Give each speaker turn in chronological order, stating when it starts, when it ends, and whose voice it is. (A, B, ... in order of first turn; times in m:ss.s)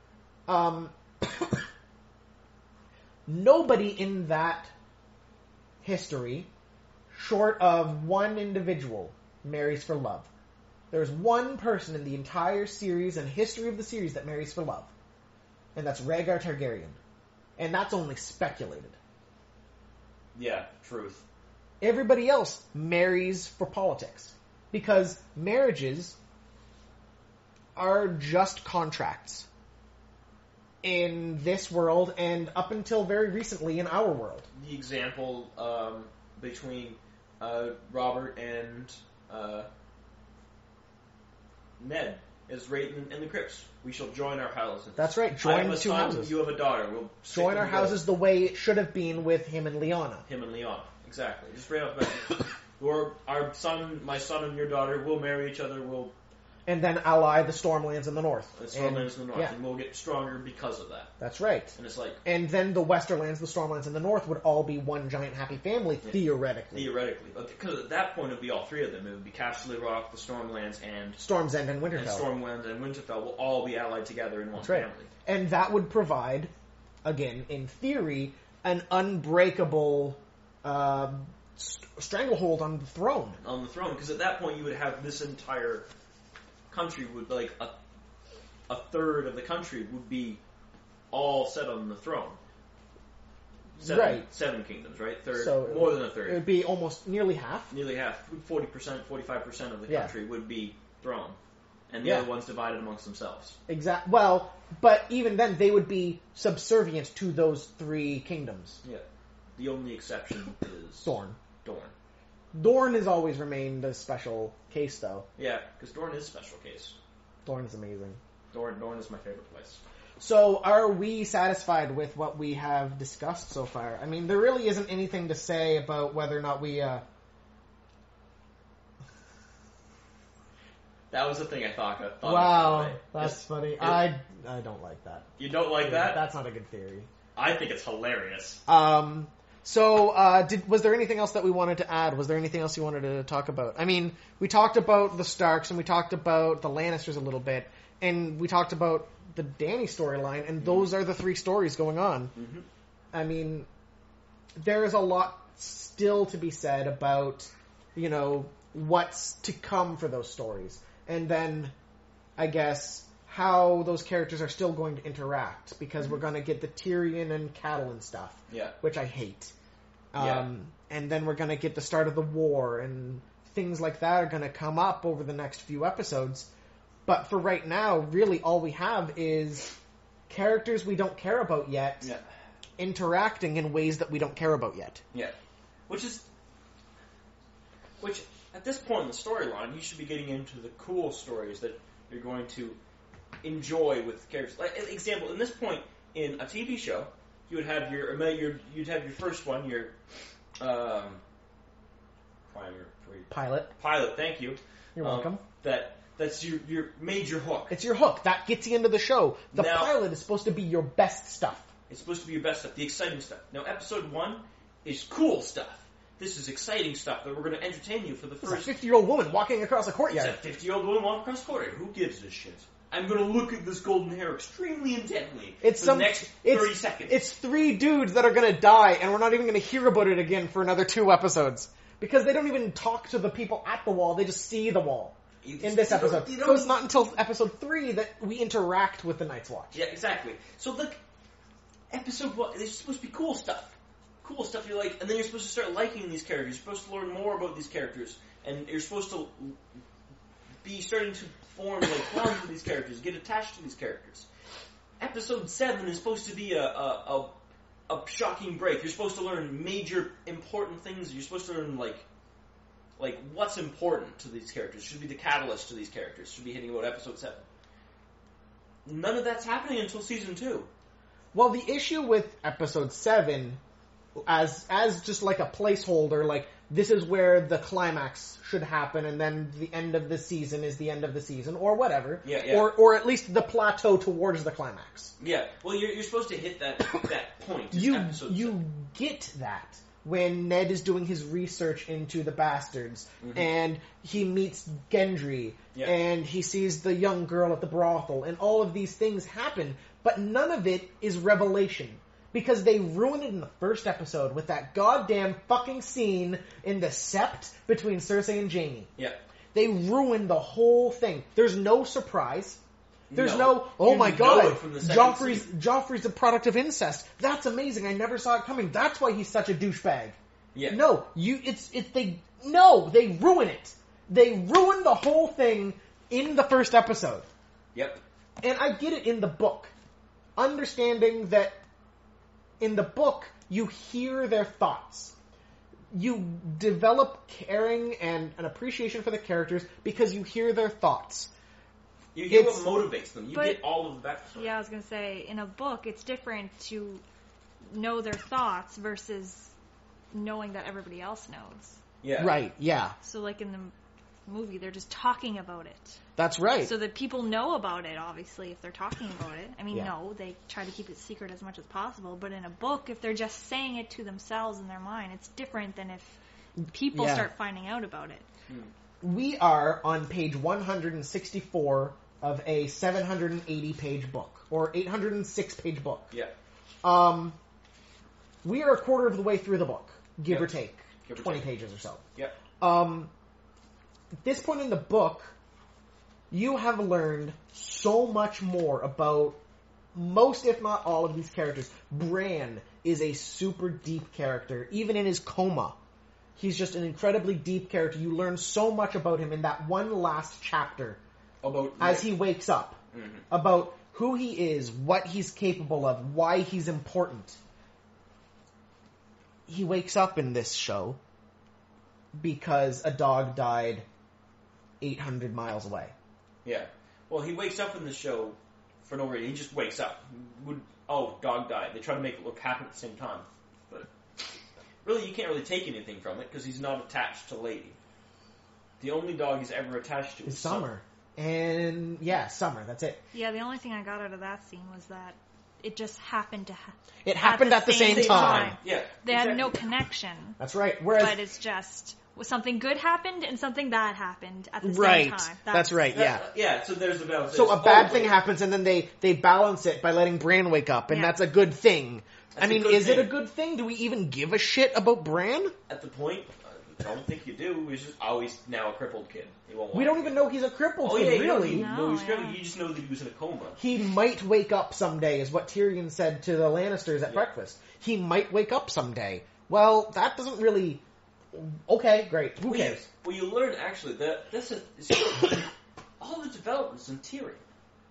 0:00.5-0:01.6 A
0:03.3-0:04.7 A
0:05.8-0:06.5 A
0:07.1-0:10.3 A
0:10.9-0:14.9 A
0:15.7-0:17.0 A
0:17.6-0:19.0 A
0:20.3-0:21.2 B
0:21.8-0:26.2 A
0:27.8-0:29.5 A
0:30.8-0:34.5 A
0:34.5-0:39.7 B
0:41.8-0:48.0 B
0:45.0-0:46.3 A
0:47.3-0:50.2 A
0:50.3-0:56.1 B
0:56.6-0:59.5 A
0:58.5-1:01.1 B
1:01.2-1:06.9 A
1:01.7-1:02.2 B
1:06.7-1:11.2 B
1:11.2-1:12.3 A
1:11.9-1:15.1 B
1:14.6-1:16.5 A
1:17.0-1:23.4 A
1:23.4-1:25.8 B
1:26.7-1:27.8 B
1:28.7-1:30.4 B
1:31.1-1:32.4 B
1:33.8-1:36.4 B
1:33.8-1:34.2 A
1:35.3-1:37.7 A
1:37.7-1:41.4 B
1:39.9-1:40.1 A
1:41.9-1:43.6 B
1:42.0-1:42.3 A
1:43.7-1:48.8 A
1:49.6-1:51.9 B
1:51.0-1:51.4 A
1:52.5-1:55.3 A
1:55.4-1:57.0 B
1:57.4-1:58.2 A
1:58.5-1:59.8 B
2:00.2-2:07.0 A
2:11.1-2:14.1 B
2:12.2-2:17.1 A
2:15.4-2:16.2 B
2:17.4-2:18.6 B
2:18.7-2:32.3 A
2:30.6-2:30.9 B
2:32.3-2:32.6 B
2:33.1-2:33.7 A
2:34.5-2:41.7 A
2:42.4-2:49.5 A
2:48.5-2:48.7 B
2:50.1-2:56.5 A
2:50.2-2:50.5 B
2:57.0-2:59.7 A
3:00.3-3:02.1 A
3:02.8-3:05.0 A
3:05.9-3:06.3 B
3:08.0-3:12.8 B
3:13.4-3:19.9 B
3:20.6-3:21.2 B
3:22.5-3:27.8 B
3:23.3-3:23.7 A
3:25.0-3:25.4 A
3:27.7-3:31.7 A
3:29.5-3:29.9 B
3:31.9-3:38.8 B
3:38.4-3:40.4 A
3:40.1-3:47.2 B
3:45.6-3:59.8 A
3:55.4-3:56.8 B
3:59.7-4:01.0 B
4:01.9-4:09.6 B
4:10.6-4:14.3 B
4:15.0-4:17.3 B
4:17.9-4:22.0 B
4:23.0-4:27.4 B
4:28.8-4:30.7 B
4:31.3-4:33.6 A
4:34.2-4:45.1 A
4:42.2-4:42.7 B
4:45.2-4:48.6 B
4:47.7-5:08.9 A
4:53.2-4:53.5 B
5:09.5-5:12.6 A
5:13.1-5:15.5 B
5:13.1-5:27.3 A
5:20.5-5:20.8 B
5:27.7-5:28.0 B
5:28.4-5:29.7 A
5:30.4-5:31.6 A
5:32.6-5:35.1 A
5:35.9-5:41.3 A
5:42.1-5:44.5 B
5:42.3-5:42.6 A
5:43.3-5:43.6 C
5:44.4-5:47.0 C
5:47.6-5:49.5 C
5:50.1-5:51.8 C
5:52.0-5:52.4 B
5:52.2-5:53.0 A
5:53.0-5:53.7 C
5:54.3-5:56.0 C
5:56.2-5:56.7 A
5:56.6-6:06.2 C
6:06.7-6:08.2 C
6:06.9-6:07.3 A
6:09.0-6:16.1 A
6:16.8-6:17.4 A
6:18.4-6:22.0 A
6:21.0-6:21.5 B
6:22.6-6:23.1 A
6:24.2-6:25.3 A
6:26.3-6:29.4 A
6:29.9-6:35.8 A
6:36.4-6:41.0 A
6:41.4-6:42.1 B
6:41.8-6:47.4 A
6:42.9-6:43.2 B
6:49.5-6:51.0 A
6:52.1-6:53.8 A
6:54.8-6:55.9 A
6:56.4-7:04.2 B
7:04.8-7:07.8 B
7:08.8-7:10.7 B
7:10.2-7:13.0 A
7:13.1-7:20.4 C
7:17.0-7:18.6 A
7:17.8-7:19.6 B
7:20.4-7:21.2 A
7:20.9-7:25.9 C
7:24.6-7:26.2 A
7:25.9-7:28.2 B
7:27.3-7:35.5 A
7:30.9-7:31.2 C
7:32.4-7:33.1 B
7:35.7-7:40.2 B
7:39.7-7:41.7 A
7:40.8-7:43.6 B
7:41.4-7:42.4 C
7:43.6-7:52.8 A
7:47.0-7:47.3 B
7:52.4-7:57.4 B